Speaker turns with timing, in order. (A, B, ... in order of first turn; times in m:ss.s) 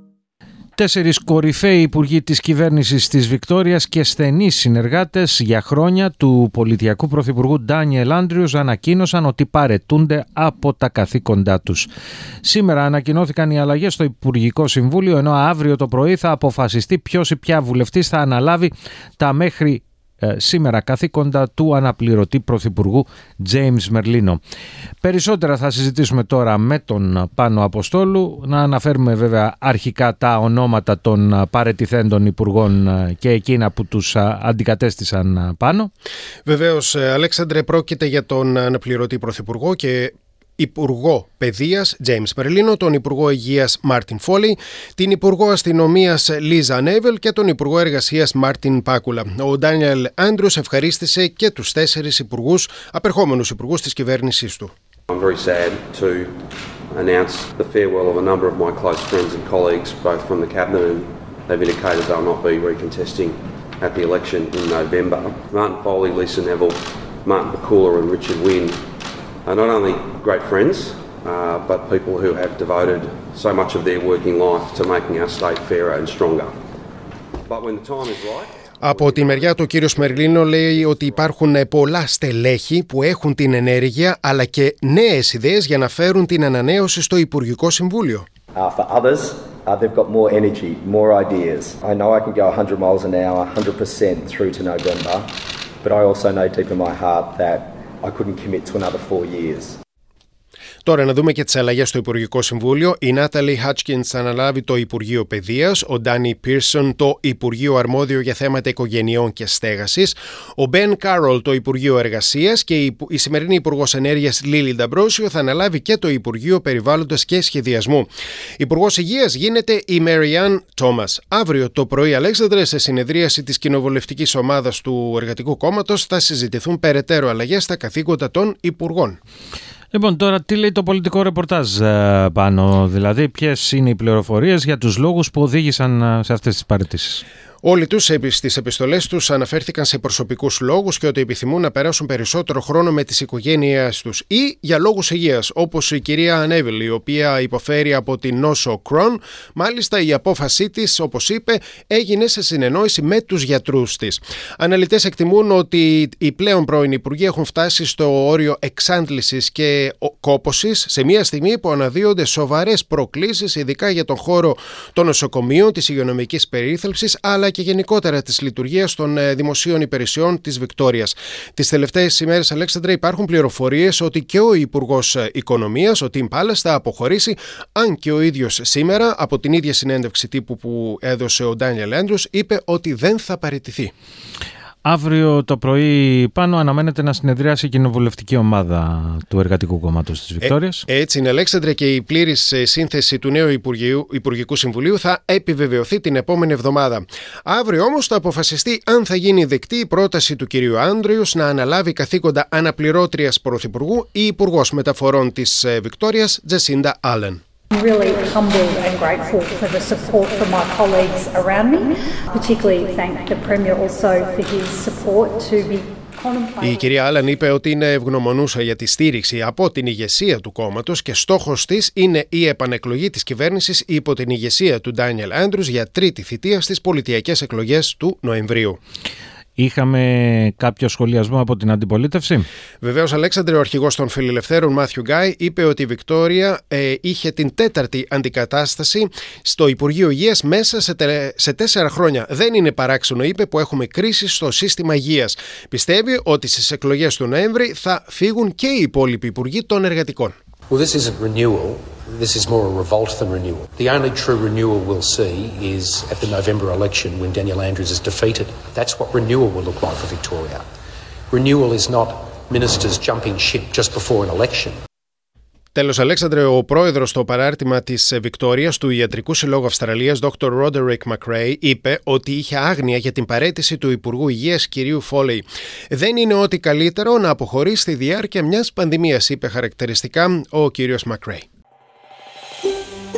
0:00.8-0:11.9 A
0:12.4-0:24.4 A
0:25.0-0:35.9 A
0:36.4-0:54.7 B
0:55.1-0:56.4 C
0:56.9-1:08.8 C
1:09.4-1:16.5 C
1:17.4-1:21.3 C
1:18.8-1:28.2 B
1:28.6-1:35.3 D
1:35.8-1:39.8 D
1:40.8-2:09.2 B
2:09.9-2:17.2 A
2:17.6-3:03.9 B
3:04.8-3:10.8 A
3:10.4-3:27.4 B
3:27.7-3:36.6 E
3:36.6-3:48.8 B
3:49.6-3:52.4 A
3:52.8-4:10.3 B
4:10.7-4:20.6 F
4:21.3-4:24.8 F
4:25.7-4:41.5 B